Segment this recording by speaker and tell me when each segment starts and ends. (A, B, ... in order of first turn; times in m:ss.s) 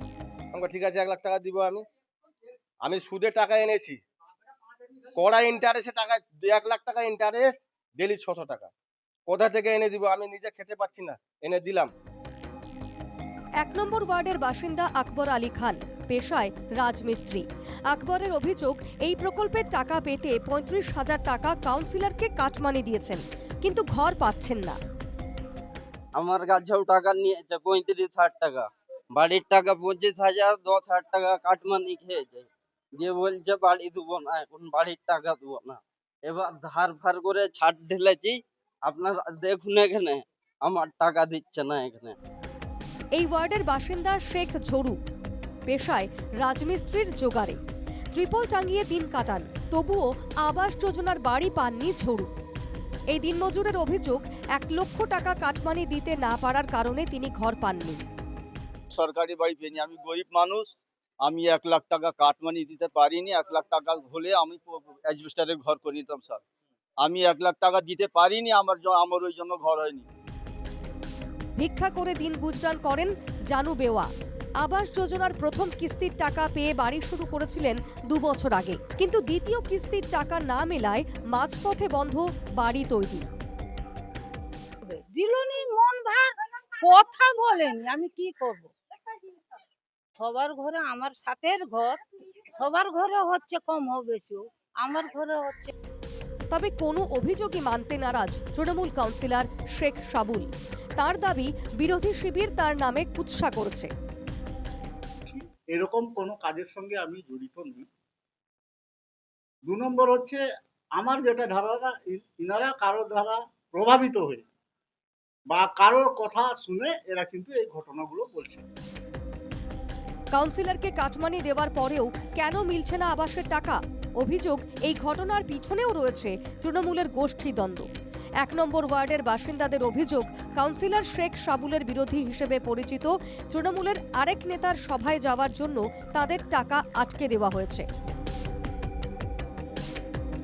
0:00.5-0:01.8 A
0:02.8-0:04.0 A
0:05.2-0:08.7 A
0:09.3-0:11.9 A
0:13.6-0:24.8 B
0:26.2-0:42.2 C
0:43.2-0:45.0 B
0:45.7-0:47.6 B
0:48.1-0:52.3 B
0:53.1-0:58.0 B
0:58.9-1:06.4 D
1:07.0-1:10.0 D
1:11.6-1:14.1 B
1:14.6-1:23.3 B
1:24.8-1:28.7 E
1:30.2-1:32.0 E
1:32.6-1:35.7 E
1:36.5-1:43.9 B
1:45.3-1:47.9 F
1:49.7-1:50.4 F
1:51.0-1:54.4 F
1:55.5-1:58.6 F
2:00.4-2:07.9 B
2:08.4-2:17.9 B